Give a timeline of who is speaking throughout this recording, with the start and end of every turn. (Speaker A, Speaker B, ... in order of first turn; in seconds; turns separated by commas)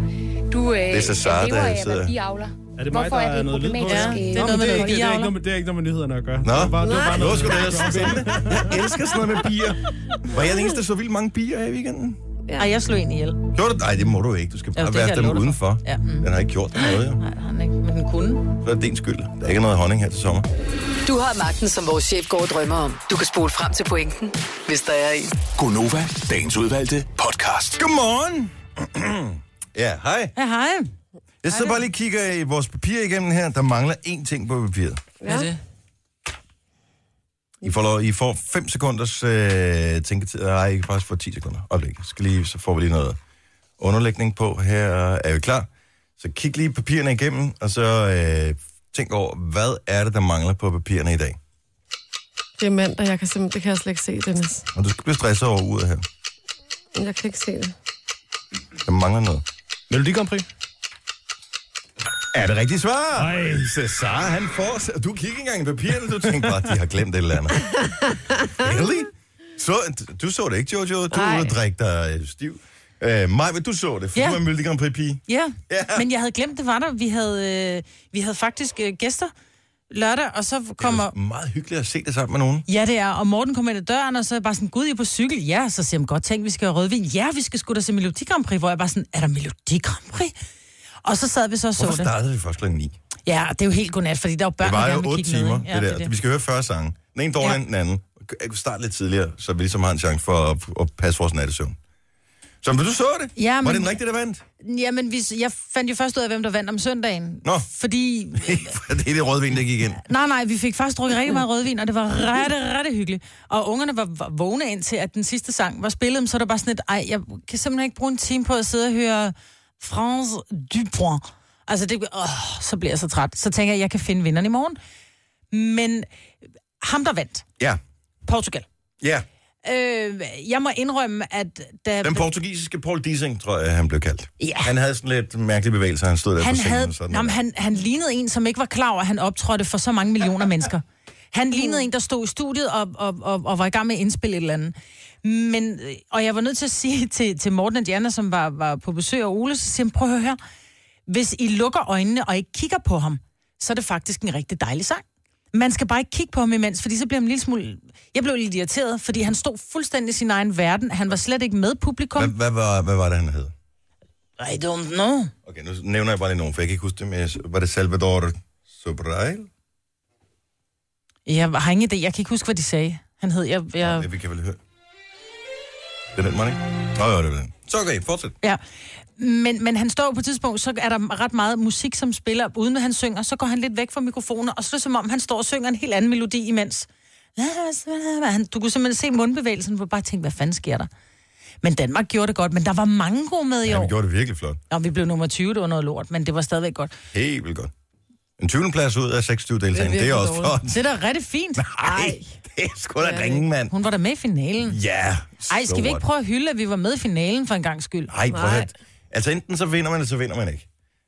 Speaker A: 0.5-5.0, Speaker B: 0.9-2.1, Speaker C: 2.8-8.8, Speaker D: 3.8-5.3, Speaker B: 6.4-12.2, Speaker E: 6.8-8.6, Speaker E: 12.5-12.7, Speaker D: 12.6-13.4, Speaker B: 13.5-17.2, Speaker D: 14.8-18.4, Speaker B: 18.6-20.5, Speaker F: 21.0-25.4, Speaker G: 25.5-27.8, Speaker B: 27.8-30.3, Speaker D: 30.4-30.9, Speaker B: 31.4-35.0, Speaker D: 31.5-31.8, Speaker E: 35.2-35.5, Speaker D: 35.2-35.6, Speaker B: 37.6-43.2, Speaker B: 43.8-51.4, Speaker E: 52.6-54.6, Speaker B: 54.7-56.0, Speaker E: 57.0-57.7, Speaker B: 58.9-59.4, Speaker C: 59.9-60.4, Speaker B: 62.3-67.7, Speaker C: 63.2-63.7, Speaker E: 68.1-68.5, Speaker B: 68.5-76.0, Speaker E: 71.1-71.5, Speaker D: 74.1-74.4, Speaker D: 75.3-79.3, Speaker D: 79.9-81.1, Speaker B: 80.8-82.7, Speaker D: 82.7-90.3, Speaker D: 91.0-92.1, Speaker B: 91.8-92.9, Speaker D: 93.2-96.1, Speaker B: 94.6-101.8, Speaker B: 102.6-104.4, Speaker D: 103.3-103.9, Speaker D: 104.6-108.8, Speaker B: 108.3-110.0, Speaker D: 110.0-124.8, Speaker D: 125.5-126.1, Speaker D: 126.8-127.5, Speaker D: 128.2-128.7, Speaker B: 129.0-129.2, Speaker D: 129.6-132.2, Speaker B: 132.0-137.4, Speaker D: 134.4-134.7, Speaker D: 136.4-150.4, Speaker D: 151.1-162.3, Speaker B: 162.2-163.5, Speaker D: 164.4-165.3, Speaker B: 165.4-169.5, Speaker D: 171.2-174.1, Speaker B: 173.8-174.6, Speaker B: 176.1-178.3, Speaker D: 179.2-190.9, Speaker D: 191.6-193.9, Speaker B: 193.6-194.6, Speaker D: 194.7-196.9, Speaker B: 197.1-197.7, Speaker B: 198.4-200.8, Speaker E: 199.7-200.6, Speaker D: 200.7-201.6, Speaker B: 201.6-203.7, Speaker E: 201.8-202.3, Speaker E: 203.0-203.4, Speaker D: 203.7-204.8, Speaker B: 204.6-206.0, Speaker D: 205.5-208.1, Speaker B: 208.1-210.7, Speaker E: 208.3-208.7